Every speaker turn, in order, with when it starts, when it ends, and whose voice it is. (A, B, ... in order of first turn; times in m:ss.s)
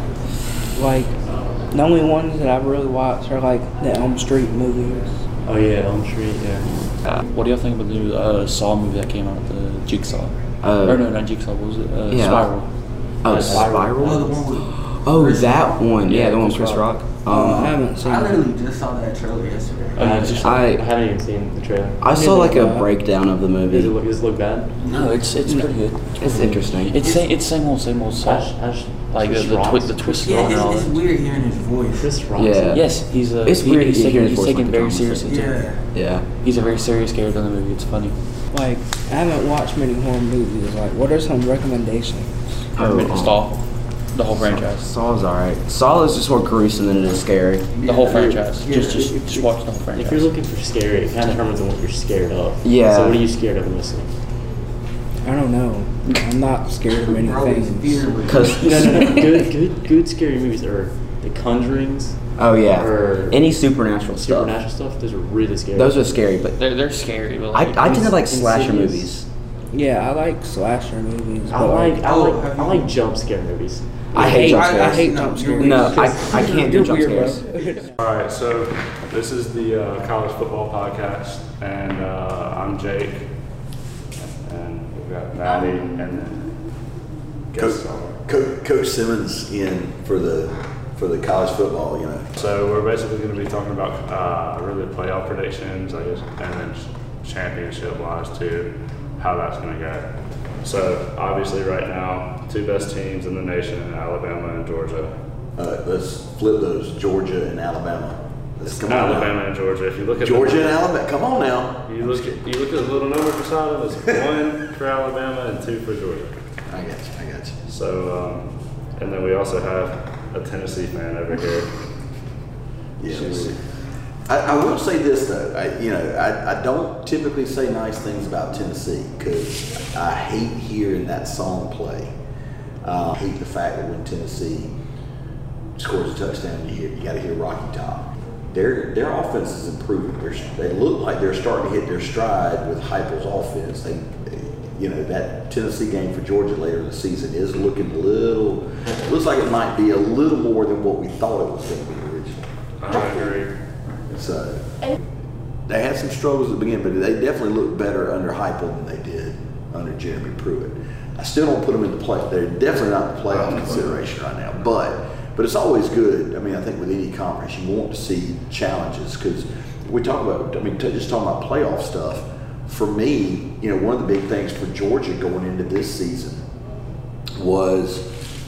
0:00.7-0:05.2 A
0:05.4-0:06.8 B
0:07.0-0:13.5 C
0:10.6-0:11.1 D
0:12.1-0:17.8 D
0:13.2-0:14.5 B
0:13.4-0:16.0 E
0:16.1-0:16.8 C
0:17.3-0:18.4 A
0:17.3-0:20.4 E
0:20.0-0:22.0 B
0:20.0-0:20.6 C
0:20.4-0:20.8 D
0:22.0-0:24.0 D
0:22.0-0:22.9 A
0:23.7-0:24.8 B
0:24.8-0:25.3 E
0:24.8-0:31.0 C
0:25.4-0:25.7 A
0:26.2-0:26.9 D
0:26.6-0:27.4 E
0:28.2-0:30.7 B
0:30.2-0:32.3 E
0:31.9-0:32.8 B
0:32.4-0:35.3 D
0:32.7-0:35.7 C
0:35.2-0:35.9 E
0:35.9-0:36.3 D
0:36.4-0:38.2 C
0:38.5-0:42.7 A
0:42.7-0:43.4 D
0:42.7-0:44.9 C
0:44.4-0:47.7 D
0:47.7-0:49.1 E
0:47.8-0:50.3 C
0:49.9-0:54.2 B
0:52.6-0:53.2 D
0:55.2-0:58.1 A
0:57.0-0:59.2 E
0:58.3-0:59.2 D
0:58.6-1:03.4 B
1:02.4-1:04.6 D
1:04.1-1:06.1 B
1:05.7-1:06.6 D
1:06.5-1:08.6 C
1:07.5-1:09.3 D
1:07.8-1:09.2 E
1:09.7-1:12.0 A
1:11.5-1:14.6 B
1:12.0-1:13.0 E
1:14.1-1:15.0 D
1:14.1-1:17.9 A
1:14.2-1:17.7 E
1:15.6-1:17.4 D
1:18.0-1:26.9 F
1:27.5-1:28.2 F
1:27.5-1:32.3 G
1:32.4-1:45.3 F
1:45.6-1:49.4 G
1:48.6-1:50.9 F
1:50.2-1:52.4 G
1:51.8-1:56.5 F
1:56.6-1:57.6 G
1:57.6-2:01.7 F
2:03.0-2:03.6 G
2:03.0-2:03.6 F
2:04.2-2:12.1 G
2:12.8-2:14.8 G
2:15.8-2:33.1 G
2:32.8-2:33.6 F
2:34.1-2:34.9 G
2:35.7-2:56.4 G
2:43.3-2:44.1 F
2:57.4-2:58.1 G